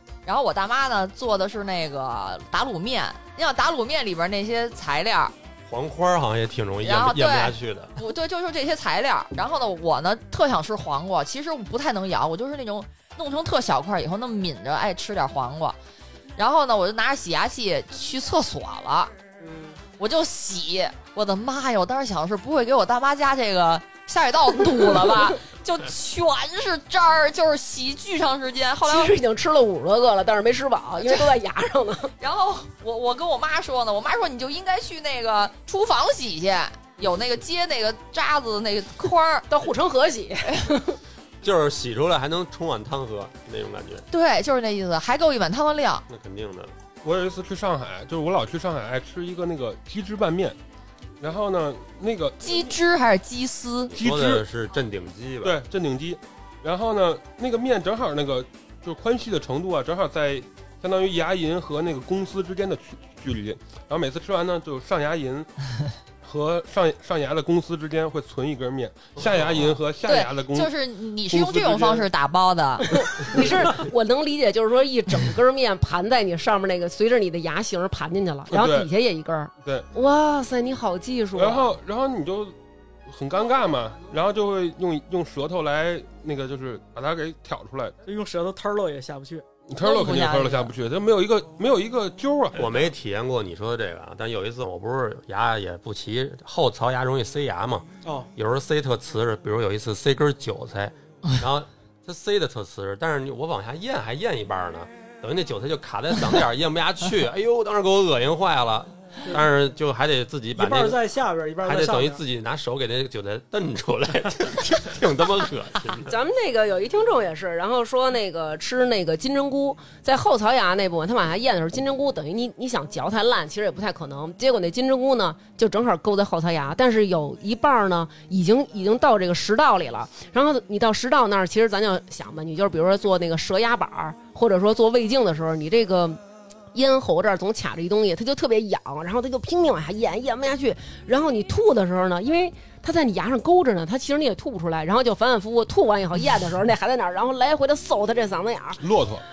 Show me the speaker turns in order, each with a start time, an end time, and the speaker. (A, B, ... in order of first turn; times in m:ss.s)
0:00.2-0:05.3 A
0:05.7-0:08.0 B
0:06.8-0:15.8 A
0:16.4-0:19.1 A
0:19.4-0:19.8 C
0:20.0-0:29.2 A
0:28.9-0:32.1 C
0:31.0-0:31.3 A
0:32.2-0:39.5 A
0:39.5-0:41.0 C
0:41.4-0:44.1 B
0:44.1-0:46.0 A
0:46.1-0:46.7 B
0:47.0-0:50.6 D
0:51.2-0:52.7 D
0:52.4-0:53.9 A
0:53.9-0:55.6 B
0:53.9-0:54.4 D
0:55.4-1:05.5 D
1:06.2-1:10.7 D
1:09.2-1:09.6 B
1:10.0-1:12.9 A
1:11.3-1:12.1 D
1:12.9-1:21.7 C
1:18.5-1:18.9 D
1:21.4-1:22.6 D
1:23.1-1:28.0 D
1:28.1-1:29.4 E
1:29.7-1:32.7 D
1:29.8-1:30.7 A
1:32.6-1:51.0 B
1:38.0-1:38.3 E
1:50.6-1:52.2 E
1:51.6-1:56.1 B
1:56.1-2:16.2 C
2:16.7-2:28.8 C
2:28.8-2:29.2 D